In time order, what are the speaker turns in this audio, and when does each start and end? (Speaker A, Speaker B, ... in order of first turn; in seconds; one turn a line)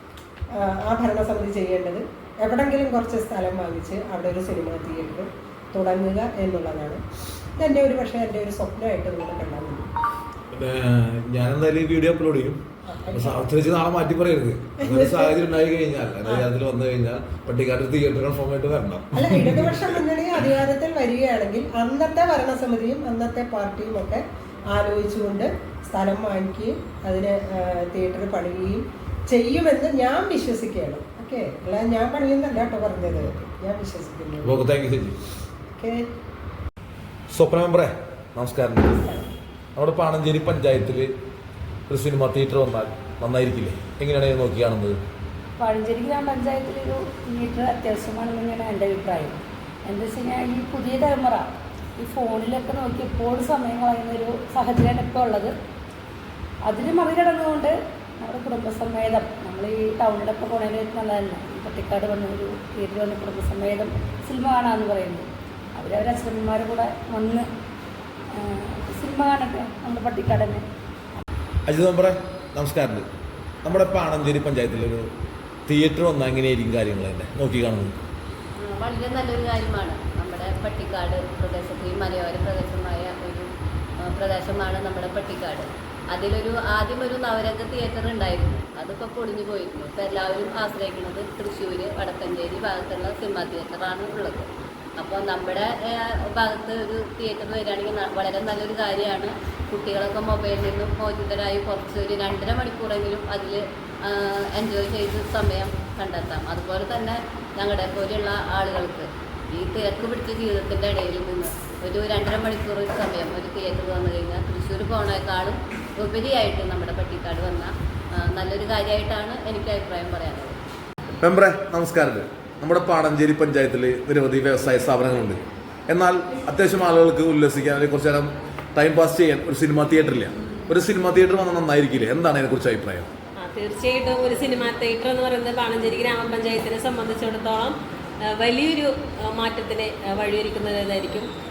Speaker A: 0.5-7.0
Speaker A: 7.6-9.9
Speaker B: 10.5-12.6
Speaker A: 12.9-13.5
Speaker B: 13.1-20.0
Speaker A: 14.8-15.4
Speaker A: 19.1-34.7
Speaker B: 34.5-35.2
Speaker A: 35.8-36.0
Speaker B: 37.3-39.2
Speaker B: 39.8-41.1
Speaker B: 41.9-45.0
Speaker C: 45.6-55.5
Speaker C: 56.7-67.5
Speaker C: 68.4-70.6
Speaker B: 71.7-73.0
Speaker B: 73.6-75.0
Speaker B: 75.7-78.0
Speaker D: 78.6-83.5
Speaker D: 84.0-120.6
Speaker B: 121.2-133.1
Speaker E: 133.4-137.8
Speaker E: 138.4-141.3